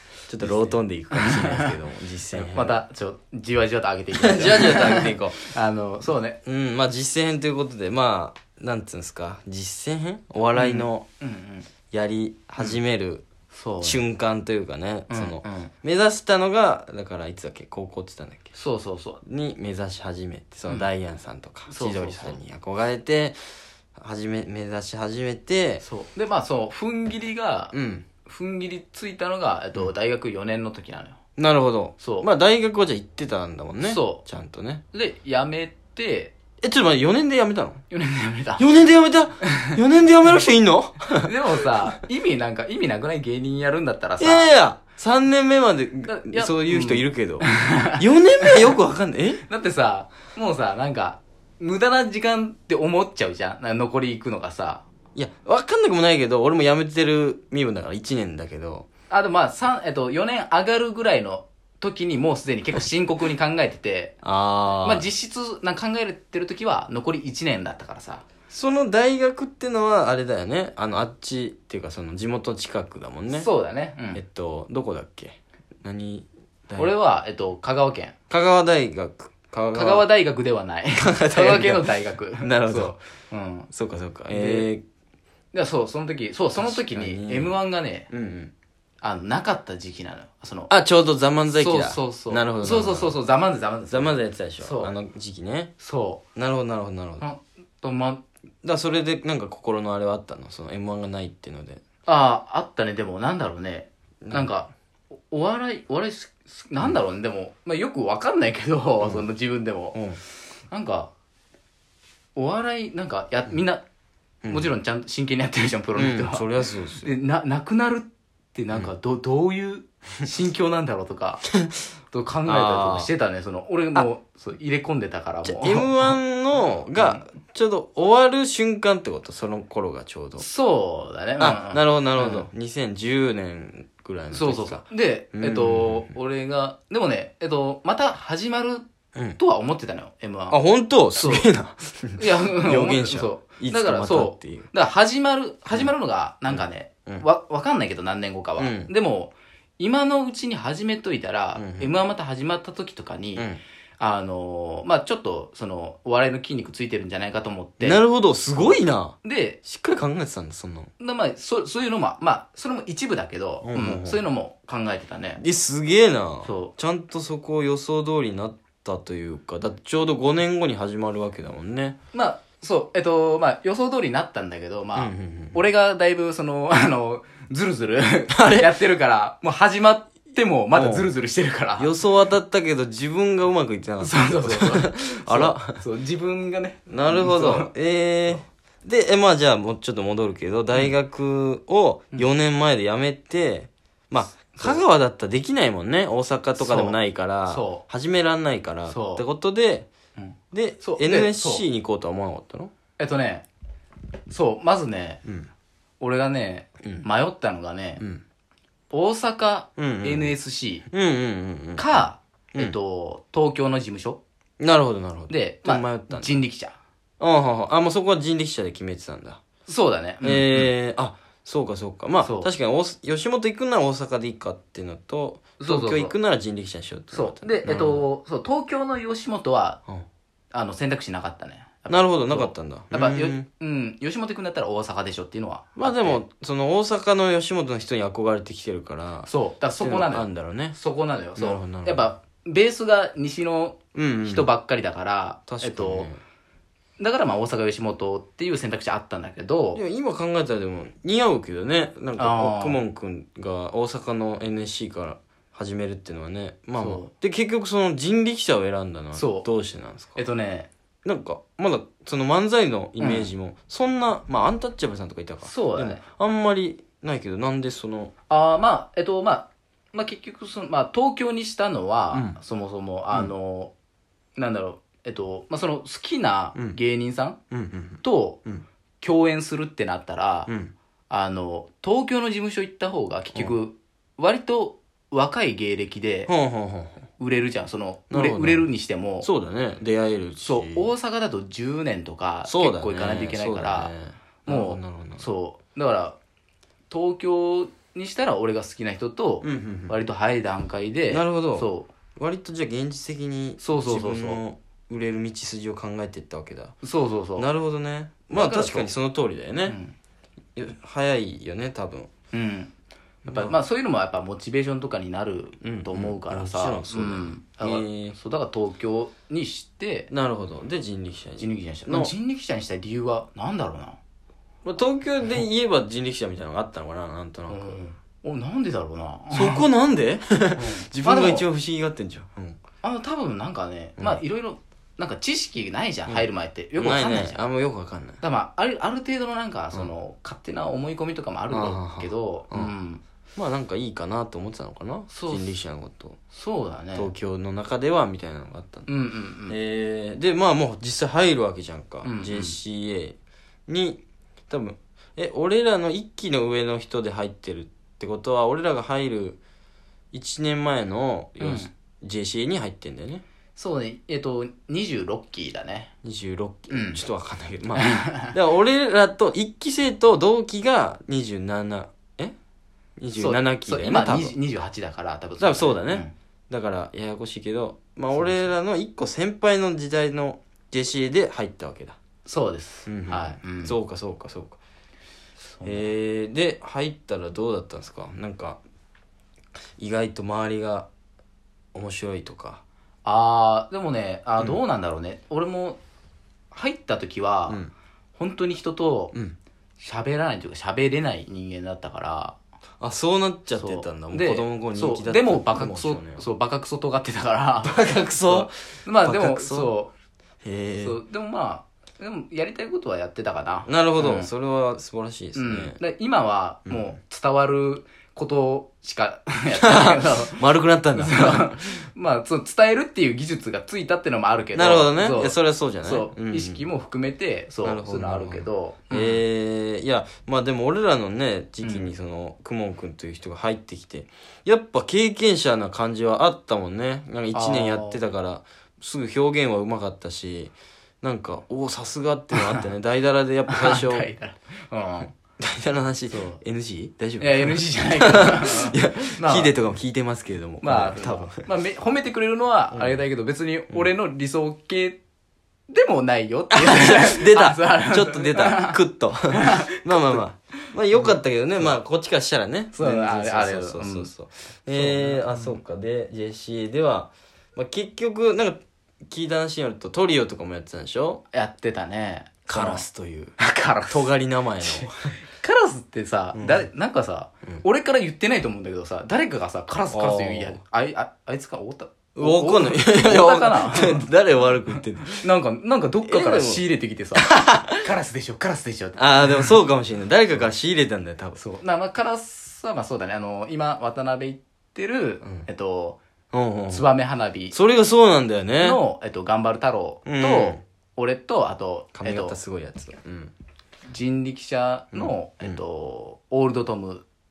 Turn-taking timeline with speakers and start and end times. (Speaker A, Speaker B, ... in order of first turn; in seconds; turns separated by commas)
Speaker A: 0.3-2.8, Speaker B: 0.4-1.8, Speaker B: 2.3-6.4, Speaker A: 4.1-5.4, Speaker A: 6.5-11.1, Speaker B: 10.6-11.7, Speaker A: 11.9-13.2, Speaker B: 13.5-14.0, Speaker A: 13.8-18.5, Speaker B: 15.1-15.7, Speaker B: 18.5-19.2, Speaker A: 19.2-23.4, Speaker B: 21.7-22.4, Speaker A: 23.9-25.8, Speaker B: 25.8-31.2, Speaker A: 27.7-28.1, Speaker A: 31.4-34.8, Speaker B: 32.0-32.3, Speaker B: 33.8-34.2, Speaker B: 34.9-36.4, Speaker A: 36.6-37.8, Speaker B: 37.9-38.7, Speaker A: 38.6-41.4, Speaker B: 39.4-39.8, Speaker B: 41.2-44.5, Speaker A: 44.2-47.5, Speaker B: 46.0-48.7, Speaker A: 48.0-49.4, Speaker B: 49.5-54.8, Speaker A: 55.1-58.9, Speaker B: 59.1-64.2, Speaker A: 64.2-65.1, Speaker B: 64.8-68.3, Speaker A: 68.5-73.5, Speaker B: 73.3-74.2, Speaker A: 74.1-76.9, Speaker B: 76.8-78.2, Speaker A: 78.3-80.1, Speaker B: 79.7-83.7, Speaker A: 81.0-83.0, Speaker A: 83.7-84.8, Speaker B: 84.3-84.7, Speaker B: 85.5-88.1, Speaker A: 86.6-87.6, Speaker A: 88.1-88.5, Speaker B: 89.0-90.7, Speaker A: 90.7-93.2, Speaker B: 91.5-94.9, Speaker A: 93.9-95.7, Speaker B: 95.8-96.2, Speaker A: 96.3-97.2, Speaker B: 97.2-98.2, Speaker A: 98.6-101.8, Speaker B: 102.1-104.7, Speaker B: 105.3-110.0, Speaker A: 109.0-109.3, Speaker A: 109.9-110.2, Speaker B: 110.7-111.1, Speaker B: 112.4-113.8, Speaker A: 114.4-114.7, Speaker B: 114.5-121.5, Speaker A: 116.0-117.1, Speaker B: 122.1-126.2, Speaker A: 122.5-123.1, Speaker A: 125.5-130.4, Speaker B: 127.0-127.3, Speaker B: 130.4-132.5, Speaker A: 131.4-136.1, Speaker B: 134.3-140.6, Speaker A: 140.5-144.7, Speaker B: 141.1-141.5, Speaker B: 142.2-153.5, Speaker A: 146.5-147.2, Speaker A: 148.6-148.9, Speaker A: 151.6-151.9, Speaker A: 153.3-153.6, Speaker B: 154.0-158.0, Speaker A: 157.8-160.9, Speaker B: 159.2-159.6, Speaker B: 161.0-165.4, Speaker A: 163.6-164.2, Speaker A: 165.4-172.0, Speaker B: 166.4-166.7, Speaker B: 172.1-181.9, Speaker A: 175.0-175.6, Speaker A: 178.3-178.7, Speaker A: 180.7-181.1, Speaker A: 181.8-185.8, Speaker B: 184.0-187.7, Speaker A: 186.9-199.9, Speaker B: 194.5-194.8, Speaker B: 196.6-197.8, Speaker B: 198.9-199.2, Speaker B: 200.2-201.6, Speaker A: 200.5-202.7, Speaker B: 203.0-203.5, Speaker B: 204.3-205.2, Speaker B: 206.0-208.0, Speaker B: 208.9-210.9, Speaker A: 209.8-210.3, Speaker A: 210.9-212.8, Speaker B: 211.8-214.2, Speaker A: 214.6-216.3, Speaker B: 215.3-216.8, Speaker A: 217.2-219.4, Speaker B: 219.7-220.7, Speaker A: 220.2-228.1, Speaker B: 222.2-222.5, Speaker B: 225.6-226.2, Speaker B: 227.1-229.8, Speaker B: 230.5-236.2, Speaker A: 231.9-233.5, Speaker A: 235.8-239.3, Speaker B: 239.2-246.1, Speaker A: 239.8-240.8, Speaker A: 241.4-242.1, Speaker A: 243.9-244.5, Speaker A: 245.5-246.2, Speaker B: 247.0-249.8, Speaker A: 249.8-260.2, Speaker B: 252.2-252.8, Speaker B: 256.8-257.1, Speaker B: 259.1-259.5, Speaker B: 260.1-260.7, Speaker A: 261.0-268.1, Speaker B: 263.0-263.3, Speaker B: 265.4-266.0, Speaker B: 268.3-273.7, Speaker A: 272.1-272.4, Speaker B: 274.4-277.4, Speaker A: 277.5-278.6, Speaker B: 278.0-278.4, Speaker B: 279.0-280.5, Speaker A: 280.5-280.7, Speaker B: 281.1-286.3, Speaker A: 286.3-287.1, Speaker B: 287.2-289.3, Speaker A: 288.1-288.7, Speaker A: 289.2-290.9, Speaker B: 290.4-293.9, Speaker A: 292.4-295.2, Speaker B: 294.4-296.2, Speaker B: 296.9-301.9, Speaker A: 299.4-300.0, Speaker A: 301.1-306.7, Speaker B: 303.6-304.4, Speaker B: 306.8-307.5, Speaker A: 307.4-309.8, Speaker B: 308.3-308.9, Speaker B: 309.6-309.9, Speaker A: 310.6-312.1, Speaker B: 312.3-312.7, Speaker A: 313.2-313.6, Speaker B: 313.3-320.1, Speaker A: 315.6-318.2, Speaker A: 320.1-322.1, Speaker B: 321.4-324.0, Speaker A: 324.6-327.8, Speaker B: 327.5-329.7, Speaker A: 329.3-332.6, Speaker B: 330.6-331.5, Speaker B: 332.8-337.4, Speaker A: 336.1-338.2, Speaker B: 338.2-343.0, Speaker A: 341.5-342.7, Speaker A: 343.4-346.2, Speaker B: 345.1-345.5, Speaker B: 346.3-347.1, Speaker A: 346.9-348.9, Speaker B: 348.9-349.6, Speaker A: 349.5-359.4, Speaker B: 352.0-352.6, Speaker A: 360.1-363.2, Speaker B: 361.4-361.7, Speaker B: 363.6-365.9, Speaker A: 366.0-372.4, Speaker B: 366.7-367.0, Speaker B: 367.8-368.4, Speaker A: 373.0-374.4, Speaker B: 373.1-376.1, Speaker A: 375.4-382.0, Speaker B: 382.3-383.8, Speaker A: 382.9-384.6, Speaker B: 385.4-385.9, Speaker A: 385.6-388.6, Speaker A: 389.8-390.9, Speaker A: 391.7-392.6, Speaker B: 393.1-395.8, Speaker B: 396.5-397.6, Speaker B: 398.2-399.2, Speaker B: 399.8-402.4, Speaker A: 402.8-406.2, Speaker B: 403.6-409.9, Speaker A: 407.6-409.7, Speaker A: 410.4-411.0, Speaker B: 410.8-414.3, Speaker A: 413.7-415.8, Speaker B: 415.4-420.4, Speaker A: 416.7-417.0, Speaker A: 419.6-421.8, Speaker B: 420.9-429.2, Speaker A: 424.6-426.6, Speaker A: 427.6-444.1, Speaker B: 431.6-431.9, Speaker B: 437.3-438.0, Speaker B: 442.3-442.6, Speaker B: 443.5-445.1, Speaker A: 445.3-451.4, Speaker B: 446.1-446.4, Speaker B: 447.2-449.6, Speaker B: 450.6-455.0, Speaker B: 455.7-458.8, Speaker A: 456.5-471.2, Speaker B: 459.3-461.1, Speaker B: 462.7-464.1, Speaker B: 464.7-465.6, Speaker B: 471.3-472.9, Speaker A: 472.5-473.3, Speaker B: 473.4-474.0, Speaker A: 473.9-475.2, Speaker B: 474.6-484.1, Speaker A: 476.4-476.7, Speaker A: 479.9-480.6, Speaker A: 482.1-485.3, Speaker B: 485.2-489.5, Speaker A: 486.1-486.6, Speaker A: 487.2-487.9, Speaker A: 489.0-491.4, Speaker B: 491.4-496.0, Speaker A: 496.3-496.9, Speaker B: 496.7-497.6, Speaker A: 497.5-498.8, Speaker B: 498.6-502.4, Speaker A: 500.1-500.6, Speaker A: 501.9-503.3, Speaker B: 503.9-507.1, Speaker A: 504.9-505.6